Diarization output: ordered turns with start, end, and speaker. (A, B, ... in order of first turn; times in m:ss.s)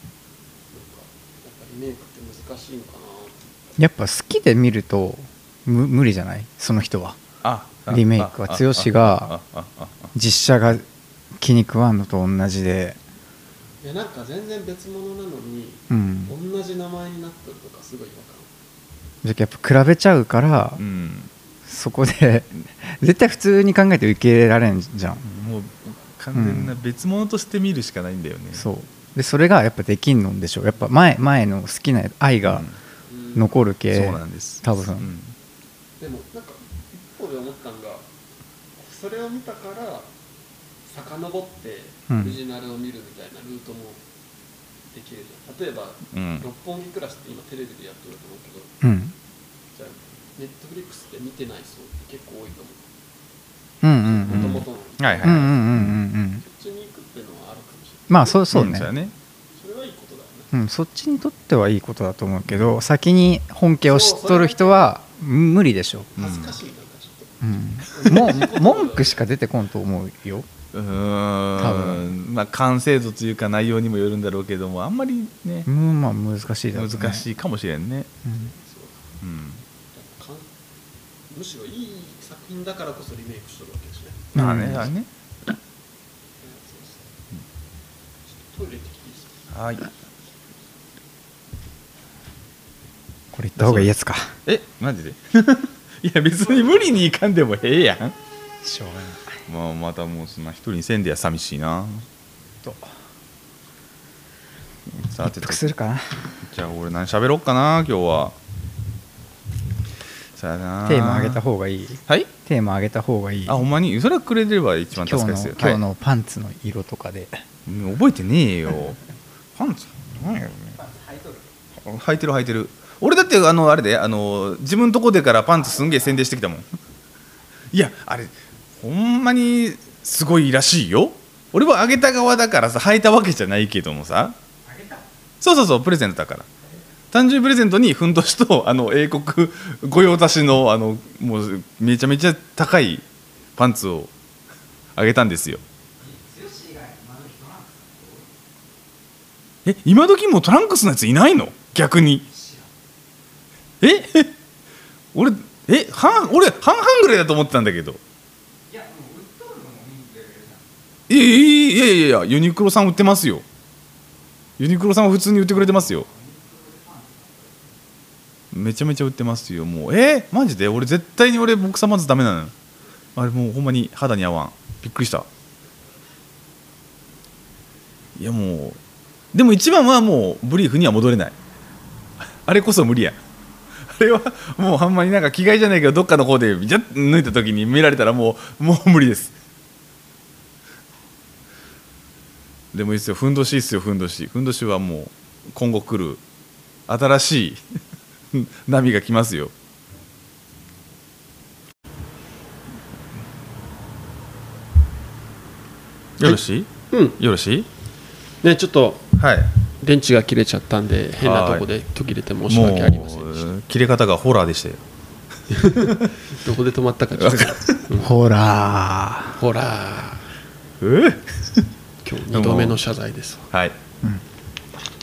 0:00.7-0:03.4 A
0:03.8-0:07.2 B
0:07.4-0:10.1 C
0:07.9-0:09.3 B
0:10.1-0:10.8 B
0:11.4-0:13.0 B
0:13.8-0:18.5 A
0:15.9-0:16.3 B
0:19.2-0:20.8 B
0:20.8-0:21.3 C
0:21.6-0:25.2 B
0:25.2-0:28.6 C
0:26.3-0:26.8 B
0:28.5-0:32.7 B
0:32.5-0:32.8 C
0:33.1-0:33.5 A
0:33.4-0:35.1 B
0:33.9-0:35.3 C
0:36.0-0:38.1 A
0:38.8-0:40.1 A
0:40.8-0:44.0 A
0:42.1-0:42.4 B
0:44.9-0:48.7 A
0:46.1-0:46.4 C
0:48.8-0:49.1 B
0:49.7-0:52.8 A
0:53.8-0:54.6 B
0:54.0-0:55.5 A
0:54.3-0:56.0 C
0:55.2-0:56.4 B
0:56.4-0:58.4 A
0:58.1-0:58.9 B
0:58.5-0:59.1 C
0:59.5-1:00.5 A
1:00.5-1:06.1 B
1:03.8-1:04.9 A
1:06.2-1:09.2 A
1:06.2-1:06.6 C
1:07.4-1:10.5 B
1:10.7-1:15.7 C
1:11.6-1:12.2 B
1:15.6-1:17.2 B
1:16.7-1:18.1 C
1:18.3-1:19.1 A
1:19.2-1:19.6 C
1:19.9-1:20.5 A
1:21.3-1:24.4 A
1:24.3-1:24.9 B
1:24.3-1:25.1 C
1:26.4-1:27.1 A
1:28.3-1:29.3 A
1:29.5-1:29.9 C
1:33.3-1:34.3 B
1:33.6-1:33.9 C
1:34.4-1:38.1 C
1:38.6-1:39.4 B
1:39.5-1:42.0 C
1:42.6-1:42.9 B
1:45.0-1:45.6 C
1:45.2-1:46.2 B
1:46.4-1:48.3 C
1:50.4-1:51.4 C
1:50.8-1:53.6 B
1:53.5-1:55.8 C
1:54.9-1:57.4 B
1:57.6-1:59.0 C
1:59.6-2:00.8 C
2:01.8-2:06.6 C
2:07.7-2:14.4 C
2:15.4-2:16.5 C
2:17.1-2:23.0 C
2:23.6-2:24.1 C
2:24.9-2:25.6 C
2:26.1-2:28.2 B
2:29.6-2:32.3 C
2:33.8-2:34.3 C
2:35.1-2:38.0 C
2:38.7-2:40.6 B
2:41.1-2:43.4 C
2:44.6-2:46.1 C
2:48.5-2:52.5 C
2:53.2-2:55.3 C
2:58.2-2:58.8 C
2:59.3-3:01.4 C
3:02.4-3:03.2 C
3:03.8-3:09.3 C
3:12.7-3:16.2 C
3:16.9-3:17.6 C
3:18.3-3:19.5 C
3:26.2-3:27.7 C
3:26.9-3:27.2 A
3:28.4-3:29.1 A
3:29.2-3:29.5 C
3:29.8-3:33.5 A
3:31.2-3:31.6 C
3:32.5-3:34.8 C
3:35.5-3:38.1 A
3:37.2-3:37.8 C
3:38.0-3:39.4 B
3:39.3-3:40.3 A
3:40.8-3:41.7 C
3:42.0-3:43.5 A
3:42.3-3:42.8 C
3:43.5-3:43.8 C